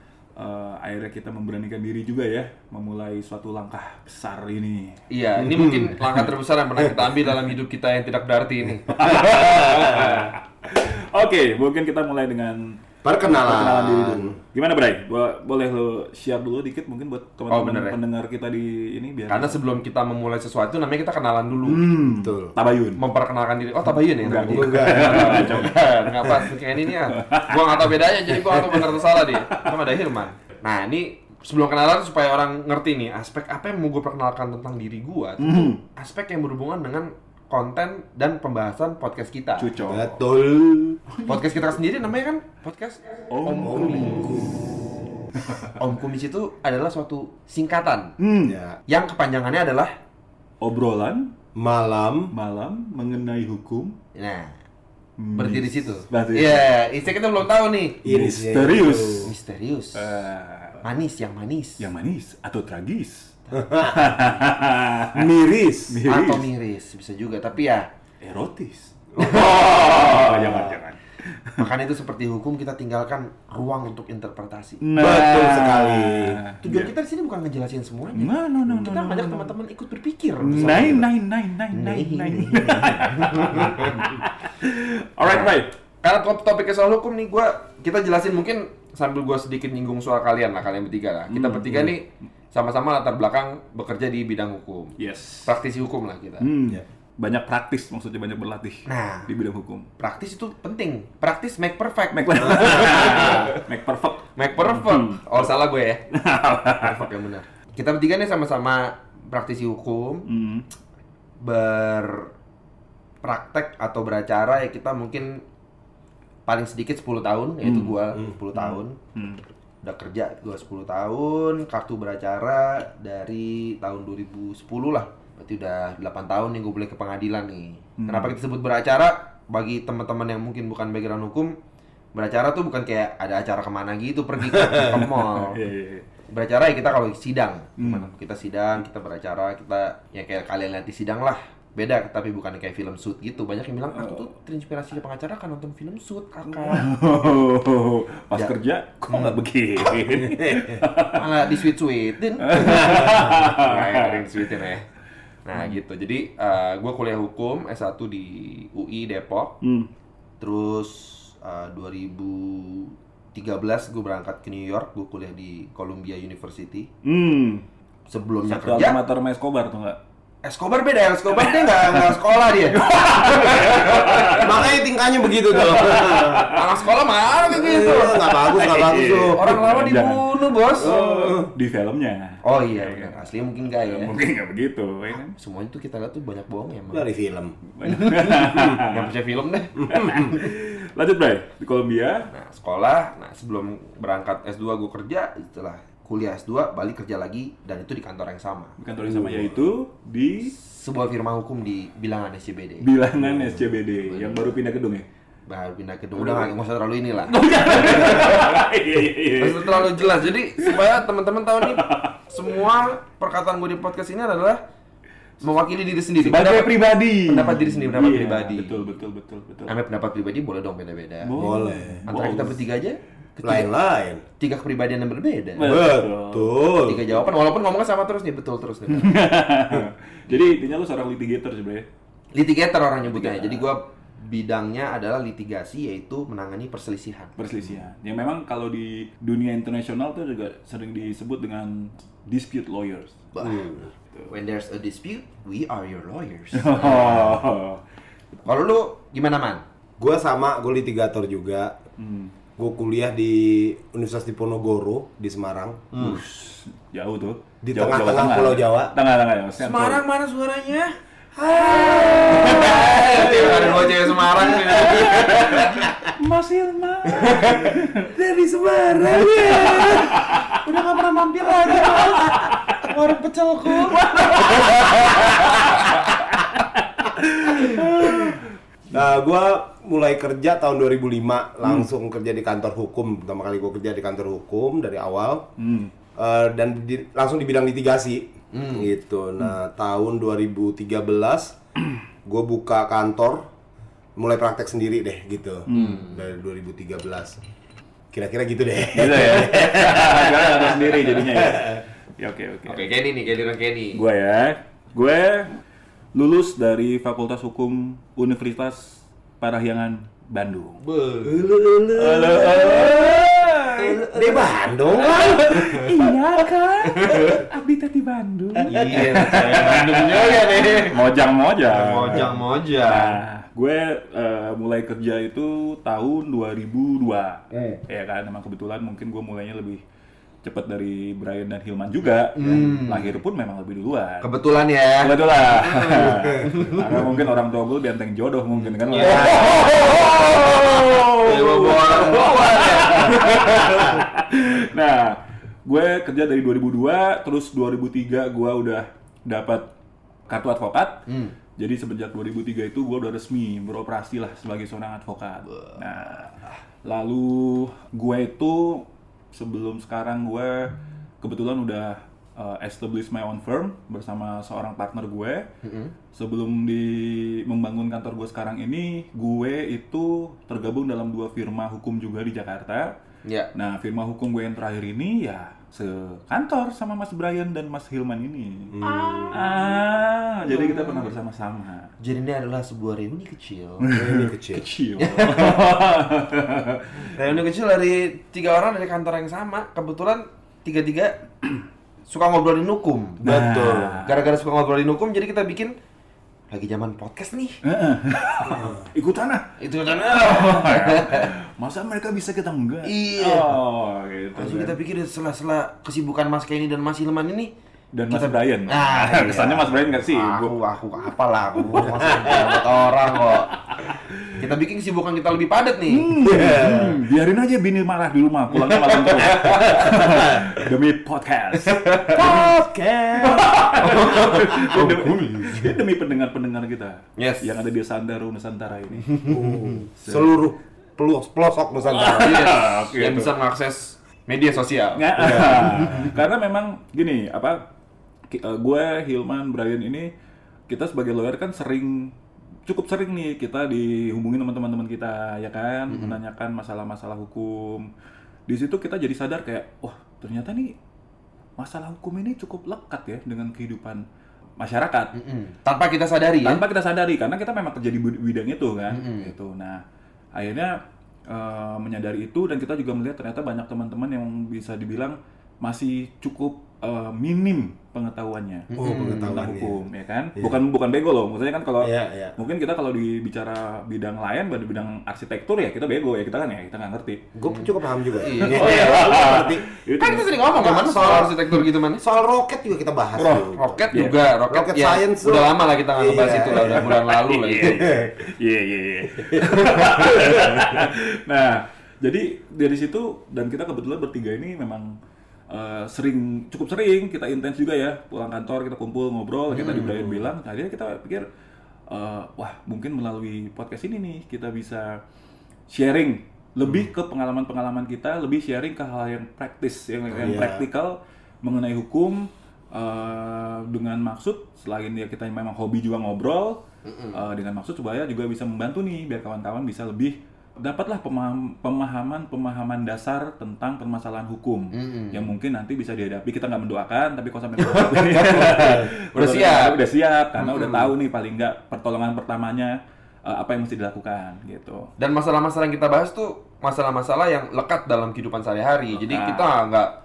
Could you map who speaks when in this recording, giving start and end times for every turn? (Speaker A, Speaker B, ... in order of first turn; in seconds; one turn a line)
Speaker A: 0.4-5.0
Speaker B: 5.1-10.3
Speaker C: 5.4-6.0
Speaker A: 8.9-19.6
Speaker C: 13.0-14.4
Speaker B: 17.5-18.0
Speaker B: 19.3-21.9
Speaker A: 21.6-23.0
Speaker C: 22.0-22.5
Speaker B: 23.0-39.8
Speaker A: 24.1-27.9
Speaker C: 24.3-25.7
Speaker A: 28.4-29.7
Speaker A: 35.4-35.8
Speaker A: 39.6-40.1
Speaker C: 39.8-41.0
Speaker A: 41.2-41.7
Speaker B: 41.3-44.5
Speaker A: 43.3-44.1
Speaker C: 43.6-44.6
Speaker B: 45.7-48.1
Speaker A: 48.2-48.6
Speaker C: 48.4-48.8
Speaker B: 48.9-49.9
Speaker A: 50.6-51.3
Speaker C: 51.5-52.3
Speaker A: 52.3-54.0
Speaker B: 54.1-54.6
Speaker A: 55.2-56.7
Speaker B: 55.3-58.0
Speaker C: 58.0-59.3
Speaker A: 58.0-59.3
Speaker B: 59.2-60.2
Speaker A: 60.0-60.9
Speaker B: 60.8-61.9
Speaker A: 61.8-65.3
Speaker C: 63.5-64.1
Speaker C: 65.1-66.0
Speaker A: 65.9-66.5
Speaker B: 66.1-67.9
Speaker A: 68.2-71.7
Speaker B: 69.2-70.8
Speaker B: 71.6-74.8
Speaker A: 74.8-76.9
Speaker C: 75.0-76.4
Speaker B: 76.6-81.1
Speaker A: 78.1-79.5
Speaker A: 80.4-85.7
Speaker B: 81.7-84.1
Speaker B: 85.2-96.5
Speaker A: 91.3-92.0
Speaker A: 95.0-95.5
Speaker A: 96.4-99.9
Speaker B: 98.9-99.3
Speaker B: 100.0-103.6
Speaker A: 102.1-105.5
Speaker B: 104.4-106.0
Speaker A: 106.1-107.1
Speaker B: 106.8-110.3
Speaker A: 110.3-110.7
Speaker B: 111.4-112.3
Speaker B: 113.2-115.4
Speaker B: 116.5-119.0
Speaker A: 117.6-119.4
Speaker B: 119.8-131.5
Speaker A: 128.0-128.3
Speaker B: 132.1-135.6
Speaker A: 134.7-136.1
Speaker B: 136.3-146.9
Speaker A: 137.8-138.1
Speaker A: 143.9-144.3
Speaker A: 146.5-151.4
Speaker B: 149.1-149.4
Speaker B: 151.1-154.9
Speaker A: 152.4-154.4
Speaker B: 155.5-159.5
Speaker A: 159.6-159.9
Speaker B: 160.4-166.9
Speaker A: 167.0-167.7
Speaker B: 168.1-169.0
Speaker A: 168.5-170.0
Speaker B: 170.4-174.7
Speaker A: 171.4-172.1
Speaker A: 172.8-174.7
Speaker C: 174.3-176.5
Speaker A: 175.4-176.7
Speaker B: 176.5-178.4
Speaker C: 177.4-179.6
Speaker A: 178.0-185.3
Speaker B: 179.3-180.9
Speaker C: 180.8-181.5
Speaker B: 182.4-184.2
Speaker B: 185.1-187.1
Speaker C: 186.9-187.6
Speaker A: 187.7-189.1
Speaker B: 187.9-190.4
Speaker A: 189.9-192.3
Speaker B: 192.3-198.8
Speaker A: 198.8-200.5
Speaker C: 199.2-199.6
Speaker B: 200.5-202.9
Speaker A: 202.8-205.1
Speaker B: 203.9-204.4
Speaker B: 205.5-208.6
Speaker A: 206.2-206.5
Speaker A: 207.2-210.1
Speaker B: 209.4-214.6
Speaker A: 210.6-210.9
Speaker A: 211.6-212.2
Speaker B: 215.4-218.8
Speaker A: 216.2-219.7
Speaker B: 219.7-221.4
Speaker A: 221.2-222.6
Speaker C: 221.4-222.1
Speaker B: 222.1-223.7
Speaker C: 223.4-224.2
Speaker B: 224.4-225.7
Speaker A: 225.6-226.6
Speaker C: 225.6-227.1
Speaker B: 226.8-229.2
Speaker A: 228.9-231.9
Speaker B: 230.3-230.6
Speaker B: 232.3-237.8
Speaker A: 233.0-233.7
Speaker A: 237.4-244.3
Speaker B: 243.3-247.5
Speaker A: 246.6-247.8
Speaker B: 248.4-249.6
Speaker C: 250.0-251.8
Speaker A: 252.0-252.3
Speaker C: 252.6-255.9
Speaker B: 255.9-256.2
Speaker A: 256.0-260.0
Speaker C: 257.6-258.9
Speaker B: 259.5-260.9
Speaker C: 261.4-264.9
Speaker B: 261.5-265.9
Speaker A: 261.5-268.1
Speaker C: 267.2-272.5
Speaker B: 267.3-267.6
Speaker B: 269.3-275.9
Speaker A: 269.6-270.4
Speaker A: 271.9-272.1
Speaker A: 273.8-278.5
Speaker C: 278.9-285.5
Speaker A: 285.6-285.9
Speaker C: 286.2-291.6
Speaker B: 288.5-288.9
Speaker C: 292.2-293.4
Speaker C: 294.2-297.4
Speaker A: 295.7-296.0
Speaker B: 295.7-296.2
Speaker C: 298.1-301.7
Speaker A: 298.9-302.9
Speaker B: 302.6-304.0
Speaker A: 303.9-305.5
Speaker A: 306.1-310.8
Speaker B: 310.8-311.5
Speaker C: 311.2-313.3
Speaker A: 311.9-314.0
Speaker B: 312.6-313.1
Speaker B: 313.6-314.7
Speaker C: 313.9-315.9
Speaker A: 315.1-329.8
Speaker B: 316.9-317.4
Speaker B: 318.7-321.0
Speaker C: 318.7-319.1
Speaker B: 321.7-323.2
Speaker A: 330.4-334.3
Speaker B: 332.4-333.2
Speaker B: 334.2-336.9
Speaker A: 335.0-349.7
Speaker B: 338.6-344.1
Speaker C: 339.0-339.5
Speaker A: 350.3-351.1
Speaker B: 351.1-351.4
Speaker A: 351.6-365.5
Speaker B: 365.6-365.9
Speaker A: 366.1-372.9
Speaker B: 373.2-373.5
Speaker A: 373.5-378.7
Speaker C: 378.7-379.4
Speaker B: 378.8-379.7
Speaker A: 379.3-381.9
Speaker B: 380.4-381.1
Speaker B: 382.0-383.9
Speaker A: 383.8-387.2
Speaker C: 383.9-384.7
Speaker B: 385.0-385.6
Speaker B: 387.0-391.2
Speaker B: 392.1-395.7
Speaker A: 393.2-394.2
Speaker C: 393.3-393.8
Speaker B: 396.5-397.6
Speaker A: 397.6-404.8
Speaker B: 399.6-401.3
Speaker B: 402.8-403.5
Speaker B: 404.4-407.5
Speaker A: 407.9-410.5
Speaker B: 408.1-413.6
Speaker A: 413.9-414.2
Speaker B: 414.4-416.1
Speaker A: 415.9-422.6
Speaker C: 416.2-417.0
Speaker B: 418.6-419.9
Speaker B: 421.6-422.2
Speaker C: 422.1-423.8
Speaker A: 423.2-429.3
Speaker B: 423.8-425.6
Speaker B: 427.2-427.5
Speaker B: 429.1-429.4
Speaker C: 429.3-432.5
Speaker A: 430.0-430.4
Speaker A: 431.9-433.3
Speaker B: 432.1-435.9
Speaker A: 435.0-437.6
Speaker C: 435.2-436.1
Speaker A: 438.3-440.1
Speaker A: 440.7-442.1
Speaker A: 442.7-447.9
Speaker B: 445.9-446.2
Speaker A: 448.5-450.8
Speaker A: 451.6-454.0
Speaker A: 454.6-455.1
Speaker B: 455.1-456.6
Speaker A: 456.4-459.8
Speaker B: 458.9-459.3
Speaker A: 460.4-460.7
Speaker A: 461.3-477.2
Speaker B: 468.7-469.5
Speaker C: 468.8-469.8
Speaker C: 471.8-472.4
Speaker C: 477.4-479.7
Speaker B: 477.5-479.4
Speaker A: 478.4-480.5
Speaker B: 480.0-482.0
Speaker C: 480.5-481.4
Speaker C: 482.0-486.9
Speaker A: 483.2-484.3
Speaker B: 483.6-488.1
Speaker A: 486.6-494.9
Speaker A: 495.5-501.3
Speaker B: 499.5-500.3
Speaker A: 501.9-505.0
Speaker A: 505.7-516.6
Speaker C: 510.1-510.7
Speaker B: 516.9-517.2
Speaker A: 517.1-534.9
Speaker B: 524.7-525.3
Speaker B: 527.6-529.8
Speaker C: 530.5-530.9
Speaker B: 535.0-539.9
Speaker A: 538.9-539.5